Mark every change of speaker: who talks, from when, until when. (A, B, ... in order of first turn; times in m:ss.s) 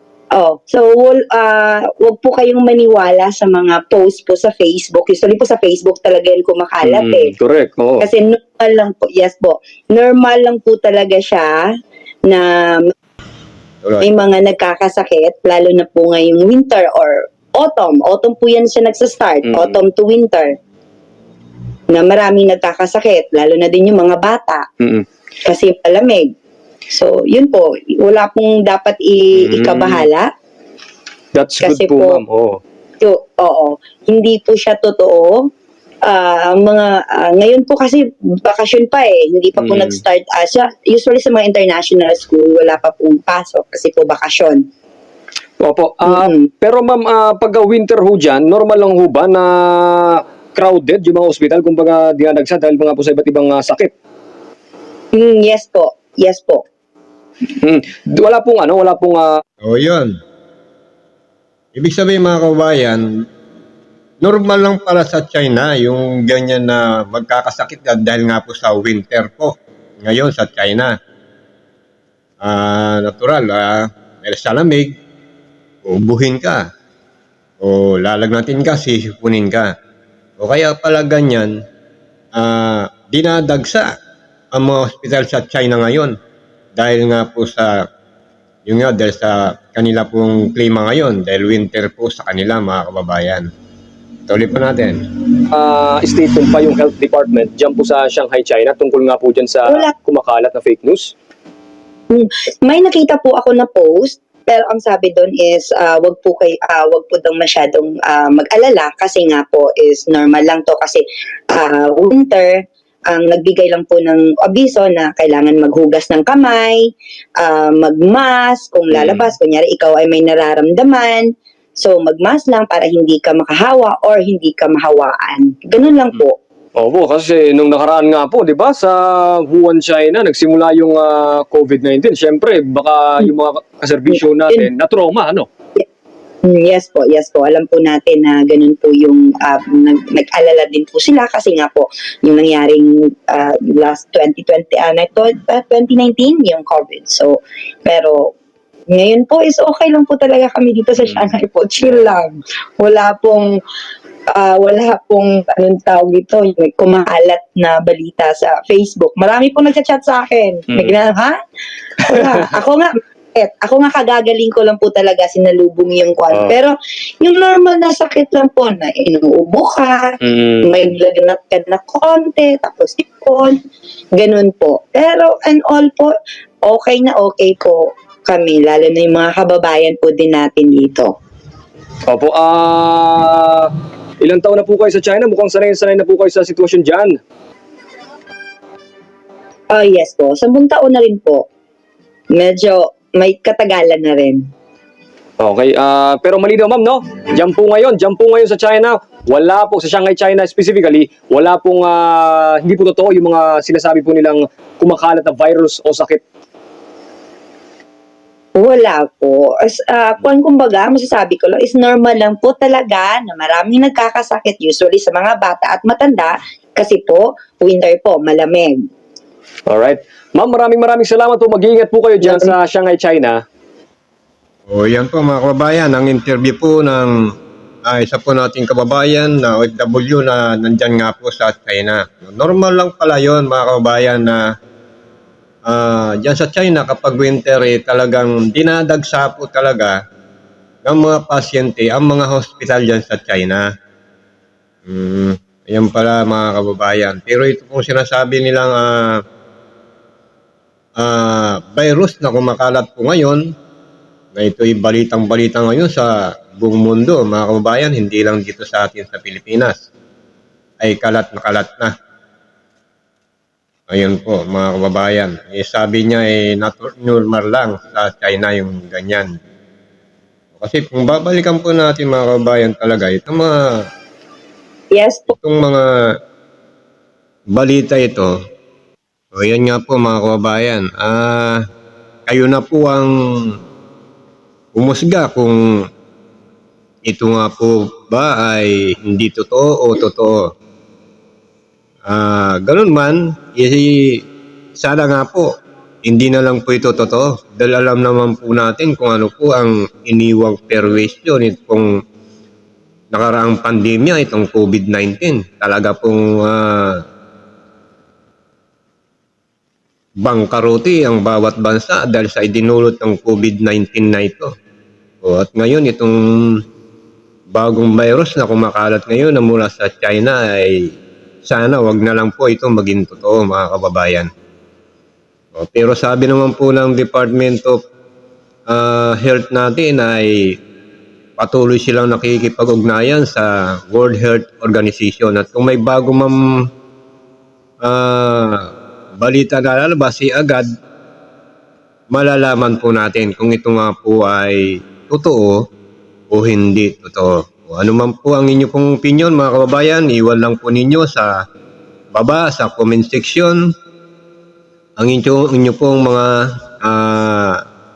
0:00.3-0:07.3 A
0:06.8-0:08.1 B
0:08.0-0:11.7 A
0:12.2-0:12.9 A
0:13.8-0:14.1 C
0:14.0-0:20.5 A
0:19.5-0:19.8 B
0:21.9-0:24.6 A
0:25.4-0:26.3 A
0:26.9-0:30.3 A
0:29.4-0:30.1 B
0:31.3-0:32.6 B
0:31.6-0:32.2 A
0:33.0-0:35.4 A
0:36.0-0:44.6 A
0:39.6-0:40.0 B
0:45.6-0:53.9 B
0:46.1-0:46.4 A
0:55.1-0:56.6 A
0:57.6-0:59.4 B
0:59.6-1:00.1 C
1:01.8-1:03.0 C
1:04.2-1:09.5 C
1:10.0-1:10.9 C
1:12.4-1:14.9 C
1:15.8-1:16.6 C
1:17.6-1:19.7 C
1:20.4-1:21.5 C
1:22.4-1:23.9 C
1:24.5-1:26.1 C
1:26.8-1:27.7 C
1:28.6-1:33.5 C
1:34.3-1:35.0 C
1:35.5-1:41.1 B
1:39.6-1:39.9 A
1:42.1-2:06.4 A
1:58.9-1:59.3 B
2:06.7-2:15.5 B
2:16.4-2:28.3 A
2:28.9-2:33.6 A
2:34.3-2:41.4 A
2:40.7-2:41.0 B
2:42.0-2:53.6 A
2:50.2-2:50.6 B
2:54.2-2:56.1 A
2:56.6-3:01.1 A
3:02.1-3:07.2 B
3:09.7-3:11.4 A
3:12.3-3:14.4 A
3:15.4-3:26.2 B
3:28.6-3:38.9 A
3:39.7-3:43.4 B
3:44.7-3:47.1 C
3:47.8-3:54.4 C
3:55.7-4:00.0 C
4:00.8-4:03.6 C
4:04.9-4:09.1 C
4:11.0-4:13.4 C
4:14.4-4:19.8 C
4:20.8-4:21.9 C
4:23.9-4:29.3 C
4:30.6-4:33.5 C
4:34.9-4:35.3 A
4:35.3-4:35.8 C
4:37.5-4:38.3 C
4:39.3-4:41.6 C
4:42.3-4:43.1 C
4:44.8-4:45.6 C
4:47.1-4:50.4 C
4:52.1-4:54.2 C
4:54.8-4:55.5 C
4:56.0-5:01.9 C
5:03.1-5:07.0 C
5:10.2-5:14.5 C
5:15.2-5:16.6 C
5:17.5-5:20.8 C
5:21.4-5:24.3 C
5:25.5-5:27.8 C
5:28.7-5:30.3 C
5:31.4-5:36.4 C
5:37.8-5:38.6 C
5:39.2-5:40.6 C
5:42.1-5:45.6 C
5:46.3-5:51.3 C
5:52.1-5:53.6 C
5:55.0-5:57.6 C